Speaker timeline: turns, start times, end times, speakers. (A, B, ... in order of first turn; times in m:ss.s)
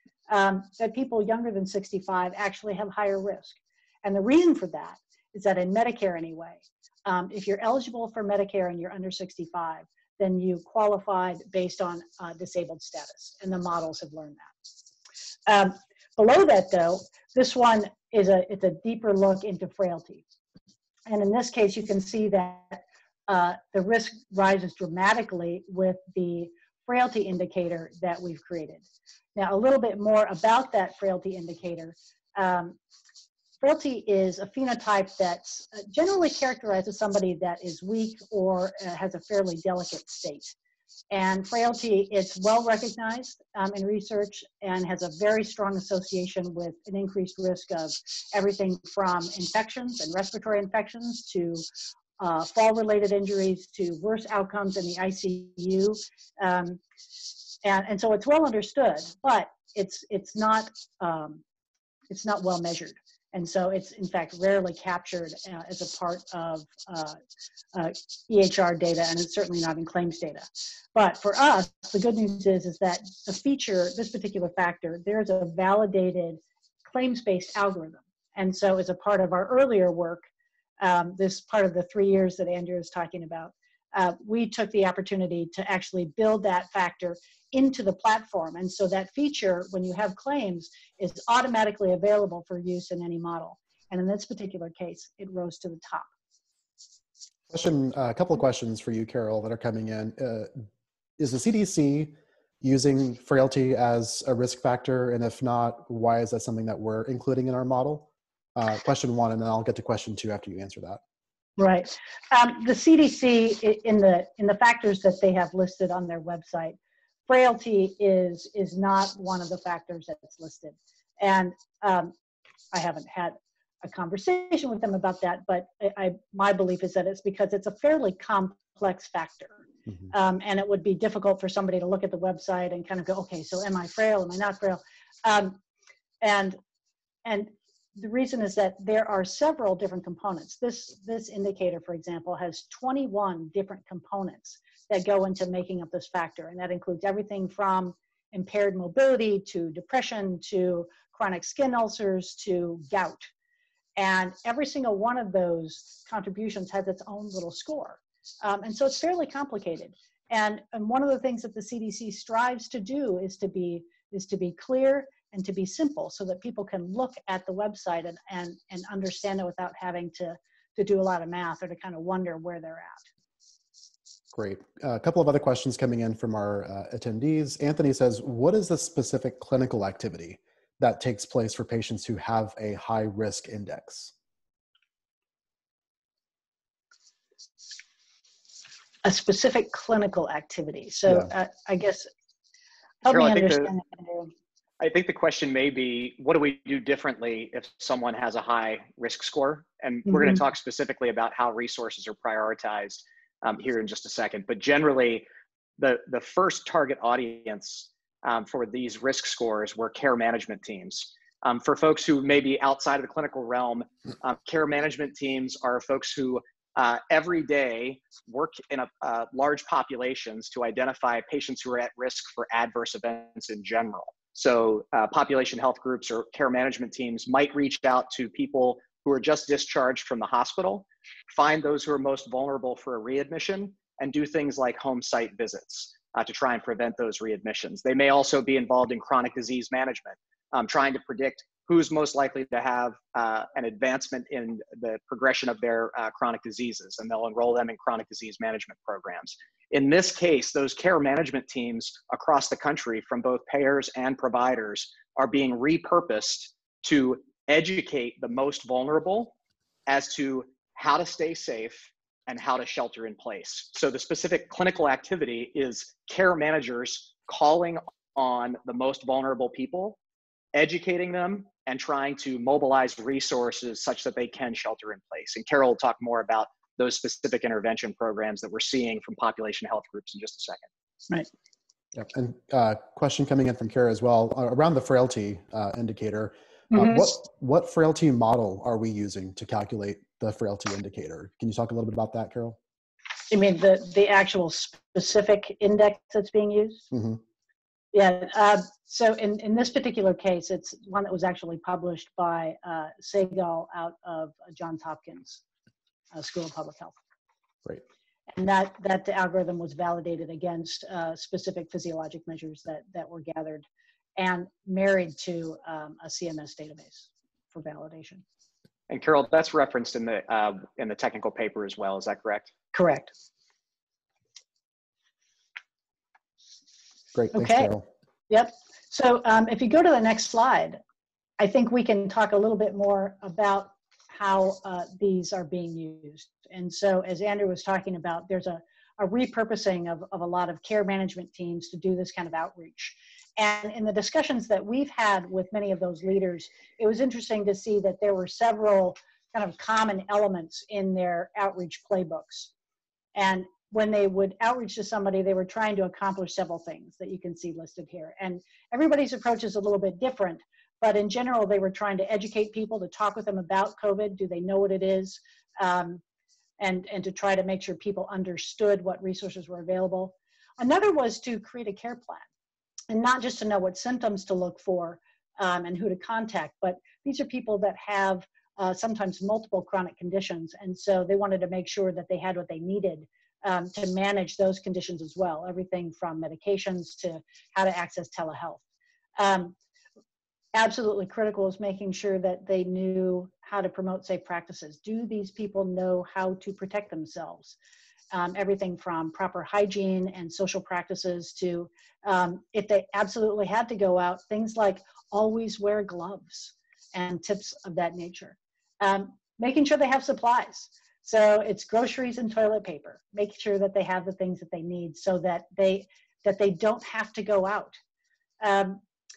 0:00.3-0:14.6 A
0:15.5-0:20.2 A
0:21.1-0:28.8 A
0:29.4-0:32.8 A
0:33.6-0:40.6 A
0:41.1-0:51.6 A
0:52.2-0:56.8 A
0:57.6-1:01.4 A
1:02.1-1:07.2 A
1:07.7-1:20.3 A
1:20.8-1:36.1 A
1:37.5-1:40.6 B
1:41.2-1:51.0 B
1:51.6-2:02.2 A
2:02.7-2:15.6 A
2:16.2-2:16.6 A
2:17.2-2:33.3 A
2:34.0-2:53.1 A
2:54.3-3:04.1 B
3:09.0-3:12.1 A
3:13.0-3:14.3 A
3:13.1-3:13.7 C
3:14.8-3:25.3 C
3:20.1-3:20.3 A
3:25.8-4:19.3 C
4:19.9-4:30.0 C
4:30.5-4:40.7 C
4:41.9-4:52.6 B
4:46.7-4:47.1 A
4:53.3-4:56.9 A
4:56.9-4:57.2 B
4:57.9-5:05.4 A
5:06.1-5:07.0 A
5:08.3-5:18.2 A
5:18.9-5:22.5 C
5:22.7-5:23.1 A
5:27.2-5:27.9 B
5:27.3-5:27.7 A
5:28.3-5:30.8 A
5:31.4-5:52.5 A
5:53.2-6:06.0 A
6:06.6-6:12.3 A
6:12.9-6:28.6 A
6:29.2-6:29.6 A
6:30.6-6:37.6 A
6:38.1-6:57.8 A
6:58.4-6:58.8 A